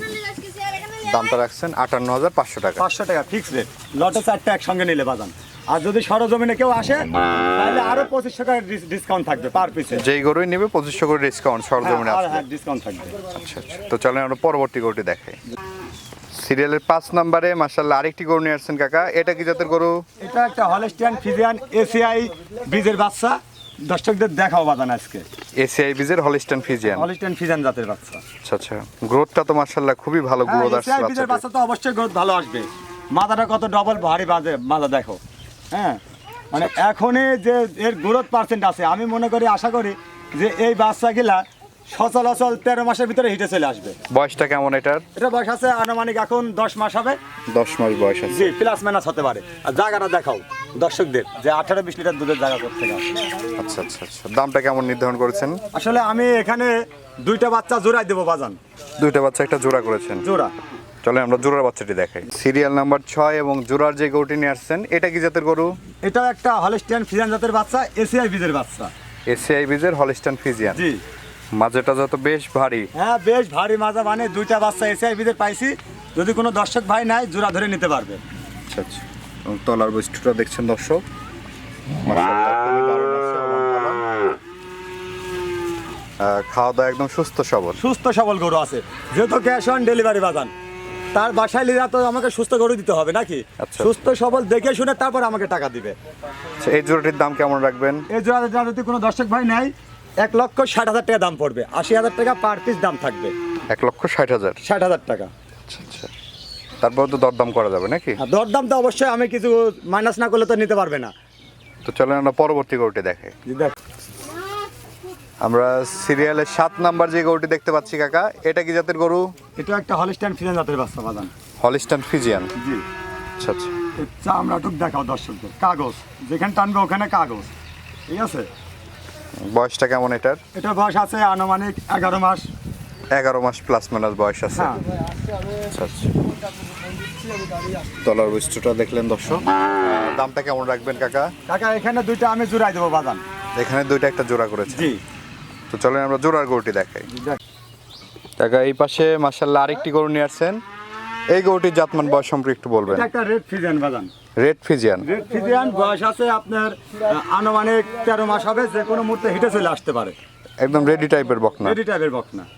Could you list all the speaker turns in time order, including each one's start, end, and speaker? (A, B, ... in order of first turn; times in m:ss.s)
0:00.8-0:02.8 A
0:02.8-0:10.0 B
0:10.0-0:12.4 A
0:11.8-0:13.1 B
0:13.3-0:15.4 A
0:16.3-0:20.0 A
0:20.2-0:25.2 B
0:25.6-0:27.1 A
0:26.9-0:28.2 B
0:28.4-0:31.4 A
0:30.4-0:35.2 B
0:35.7-0:44.0 B
0:44.1-0:45.0 A
0:45.2-0:47.2 B
0:47.5-0:48.5 A
0:48.3-0:53.1 B
0:53.6-0:55.6 A
0:55.7-0:58.6 B
0:59.0-1:00.2 A
1:00.2-1:00.5 B
1:01.0-1:05.8 A
1:06.0-1:08.9 B
1:09.3-1:10.8 A
1:10.7-1:11.0 B
1:11.6-1:12.9 A
1:12.9-1:18.2 B
1:18.7-1:21.0 A
1:21.9-1:24.0 A
1:26.2-1:27.8 A
1:27.8-1:30.5 B
1:31.1-1:36.0 B
1:33.6-1:33.9 A
1:36.6-1:38.0 A
1:38.1-1:43.3 B
1:43.7-1:44.6 A
1:44.6-1:45.3 B
1:45.7-1:46.1 A
1:46.8-1:48.2 A
1:48.2-1:51.1 B
1:51.8-1:53.3 A
1:53.4-1:53.8 B
1:55.4-1:59.3 A
1:59.6-2:01.3 B
2:01.6-2:02.5 A
2:02.6-2:02.8 B
2:03.4-2:03.8 A
2:04.0-2:07.5 B
2:08.1-2:08.5 B
2:09.4-2:10.4 A
2:10.5-2:12.5 B
2:13.1-2:14.8 A
2:14.5-2:14.8 B
2:15.5-2:16.1 A
2:17.9-2:21.3 A
2:21.5-2:23.2 B
2:23.6-2:24.9 A
2:24.7-2:25.0 B
2:25.7-2:27.1 A
2:27.1-2:27.4 B
2:28.4-2:30.6 A
2:31.3-2:33.1 A
2:32.9-2:34.1 B
2:34.4-2:35.1 A
2:35.0-2:40.2 B
2:40.6-2:41.8 A
2:41.6-2:42.5 B